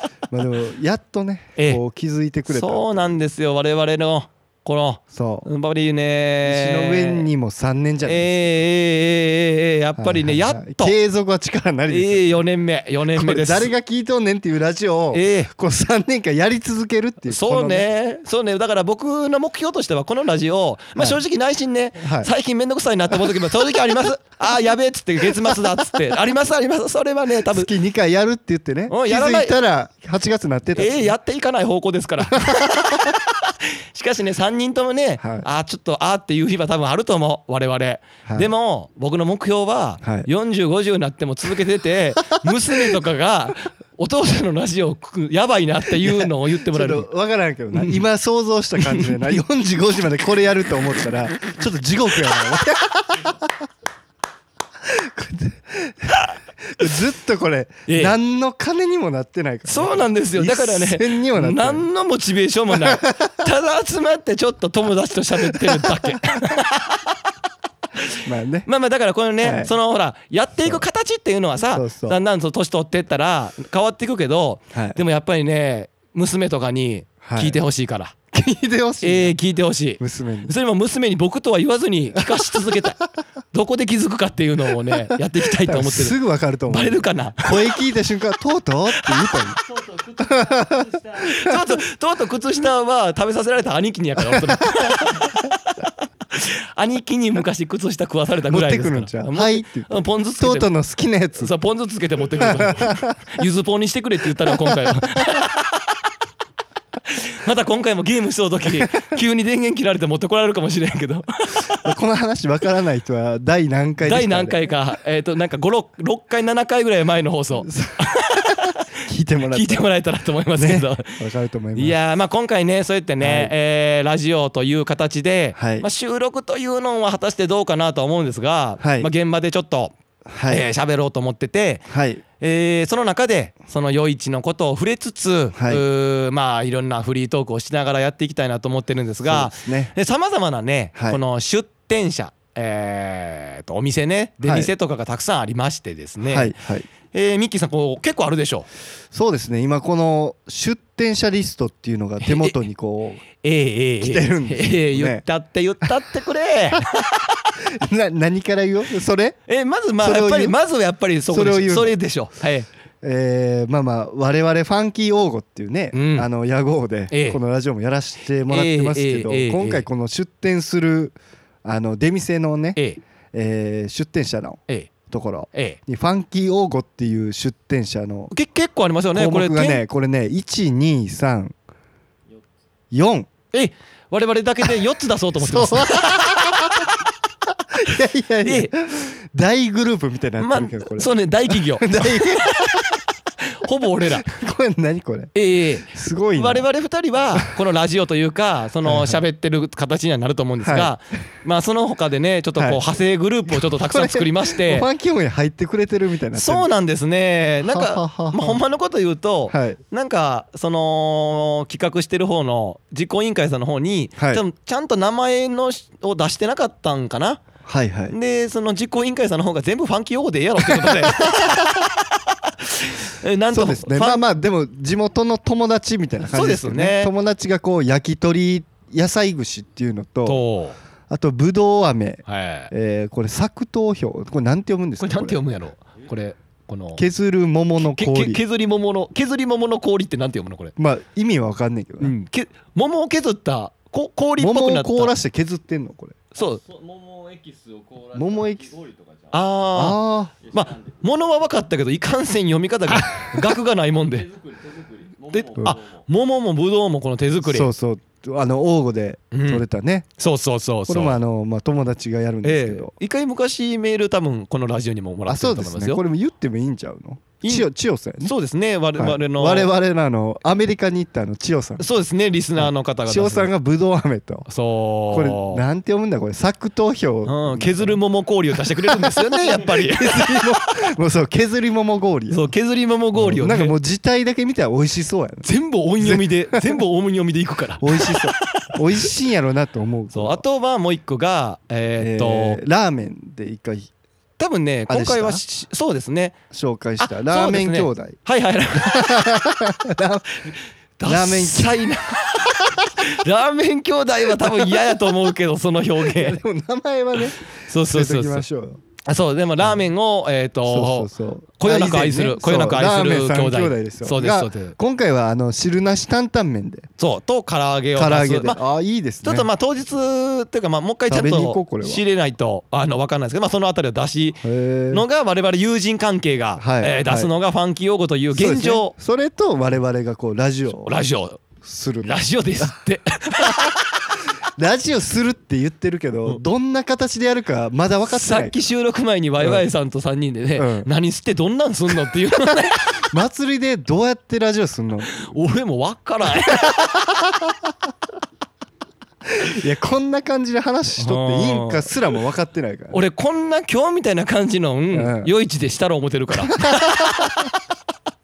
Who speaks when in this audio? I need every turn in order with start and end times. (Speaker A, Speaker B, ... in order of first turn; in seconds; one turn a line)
Speaker A: 0.3-3.1
Speaker B: 2.5-7.3
Speaker A: 5.1-5.5
Speaker A: 6.4-8.5
Speaker B: 8.0-10.9
Speaker A: 10.0-12.4
Speaker B: 11.9-13.7
Speaker A: 13.1-17.9
Speaker B: 15.1-15.5
Speaker B: 17.3-27.7
Speaker A: 22.0-22.3
Speaker A: 23.1-23.5
Speaker A: 25.3-26.0
Speaker A: 27.4-31.1
Speaker B: 28.9-29.5
Speaker B: 30.8-47.1
Speaker A: 32.3-33.1
Speaker A: 35.2-35.5
Speaker A: 40.0-40.3
Speaker A: 46.0-53.5
Speaker B: 47.7-48.0
Speaker B: 48.8-49.4
Speaker A: 54.8-61.8
Speaker B: 57.9-58.1
Speaker B: 59.7-67.2
Speaker A: 62.7-63.5
Speaker A: 65.4-66.2
Speaker B: 68.0-78.2
Speaker A: 68.2-68.7
Speaker A: 69.4-69.7
Speaker A: 71.7-72.2
Speaker A: 74.7-75.0
Speaker A: 77.2-77.6
Speaker A: 78.3-79.3
Speaker B: 79.0-83.0
Speaker A: 80.0-80.5
Speaker A: 82.1-82.8
Speaker B: 83.5-86.2
Speaker A: 84.9-89.6
Speaker B: 86.7-87.8
Speaker B: 89.0-89.4
Speaker C: 89.6-91.5
Speaker A: 90.2-91.6
Speaker B: 91.2-100.7
Speaker A: 94.3-95.2
Speaker A: 98.5-101.5
Speaker B: 101.4-105.9
Speaker A: 102.3-103.3
Speaker A: 104.4-105.3
Speaker B: 107.1-111.9
Speaker A: 111.7-114.6
Speaker B: 114.0-118.9
Speaker A: 117.7-118.1
Speaker A: 119.0-119.8
Speaker B: 119.5-121.2
Speaker A: 120.5-122.0
Speaker B: 121.7-129.9
Speaker A: 123.2-123.5
Speaker A: 125.5-125.8
Speaker A: 128.8-129.1
Speaker A: 130.3-130.6
Speaker B: 130.5-146.5
Speaker A: 131.9-132.2
Speaker A: 135.5-135.8
Speaker A: 139.2-139.9
Speaker A: 140.9-141.2
Speaker A: 144.4-144.7
Speaker A: 146.2-146.9
Speaker B: 147.1-148.7
Speaker A: 149.1-153.2
Speaker B: 152.2-152.6
Speaker B: 153.4-157.5
Speaker A: 154.0-155.2
Speaker A: 157.6-159.4
Speaker B: 159.5-162.7
Speaker A: 160.0-160.6
Speaker A: 161.3-162.0
Speaker A: 163.0-172.8
Speaker B: 165.9-166.3
Speaker B: 167.1-167.4
Speaker B: 168.5-169.9
Speaker A: 173.3-178.3
Speaker B: 175.5-175.8
Speaker B: 178.3-179.8
Speaker A: 179.1-181.5
Speaker A: 182.9-183.3
Speaker B: 183.5-186.9
Speaker A: 185.3-186.9
Speaker A: 187.7-193.0
Speaker B: 188.4-188.7
Speaker B: 190.4-194.3
Speaker A: 194.0-196.7
Speaker B: 195.3-204.9
Speaker A: 198.8-199.2
Speaker A: 200.6-200.9
Speaker A: 202.6-202.8
Speaker A: 203.5-206.7
Speaker B: 206.3-217.4
Speaker A: 207.6-208.6
Speaker A: 209.5-209.8
Speaker A: 214.2-214.4
Speaker A: 217.6-218.1
Speaker B: 218.1-224.2
Speaker A: 220.6-221.6
Speaker A: 223.5-230.4
Speaker B: 226.2-227.1
Speaker B: 230.2-230.8
Speaker A: 231.1-235.4
Speaker B: 232.3-232.7
Speaker B: 235.0-237.0
Speaker A: 236.9-238.4
Speaker B: 237.8-240.7
Speaker A: 240.8-242.1
Speaker B: 242.0-245.1
Speaker A: 244.4-246.2
Speaker B: 246.3-246.6
Speaker C: 246.4-249.6
Speaker A: 248.1-248.7
Speaker B: 249.3-254.3
Speaker A: 249.7-250.3
Speaker C: 250.4-251.0
Speaker C: 254.0-256.1
Speaker B: 255.3-257.7
Speaker A: 257.4-260.1
Speaker B: 259.3-259.6
Speaker B: 260.2-261.2
Speaker A: 260.9-262.9
Speaker B: 262.4-266.0
Speaker A: 265.3-268.3
Speaker B: 268.2-269.7
Speaker A: 268.9-271.8
Speaker B: 271.8-273.5
Speaker A: 272.6-274.5
Speaker B: 274.5-275.6
Speaker A: 275.1-278.0
Speaker B: 277.2-280.5
Speaker A: 278.6-282.5
Speaker B: 282.3-283.7
Speaker A: 283.1-285.4
Speaker B: 285.4-289.1
Speaker A: 286.0-286.8
Speaker A: 287.8-290.4
Speaker B: 290.1-292.6
Speaker A: 292.0-293.9
Speaker B: 294.4-296.4
Speaker A: 294.9-295.4
Speaker A: 296.5-298.2
Speaker B: 297.0-299.3
Speaker A: 298.8-300.5
Speaker B: 301.0-306.4
Speaker A: 301.0-302.0
Speaker A: 302.6-302.9
Speaker A: 304.3-304.9
Speaker A: 306.0-308.8
Speaker B: 307.6-308.4
Speaker B: 309.0-314.8
Speaker A: 310.6-316.9
Speaker B: 317.0-318.6
Speaker A: 317.9-319.5
Speaker B: 319.2-328.9
Speaker A: 321.1-322.0
Speaker A: 324.4-325.0
Speaker A: 326.6-327.3
Speaker A: 328.3-331.0
Speaker B: 330.8-331.4
Speaker A: 331.6-332.7
Speaker B: 332.0-334.0
Speaker A: 334.6-338.6
Speaker B: 338.1-343.1
Speaker A: 339.4-339.6
Speaker A: 340.6-340.9
Speaker A: 343.1-345.3
Speaker B: 345.1-347.0
Speaker A: 346.6-346.9
Speaker A: 349.3-353.0
Speaker B: 351.0-351.9
Speaker B: 352.9-357.5
Speaker A: 354.9-355.3
Speaker A: 356.4-357.4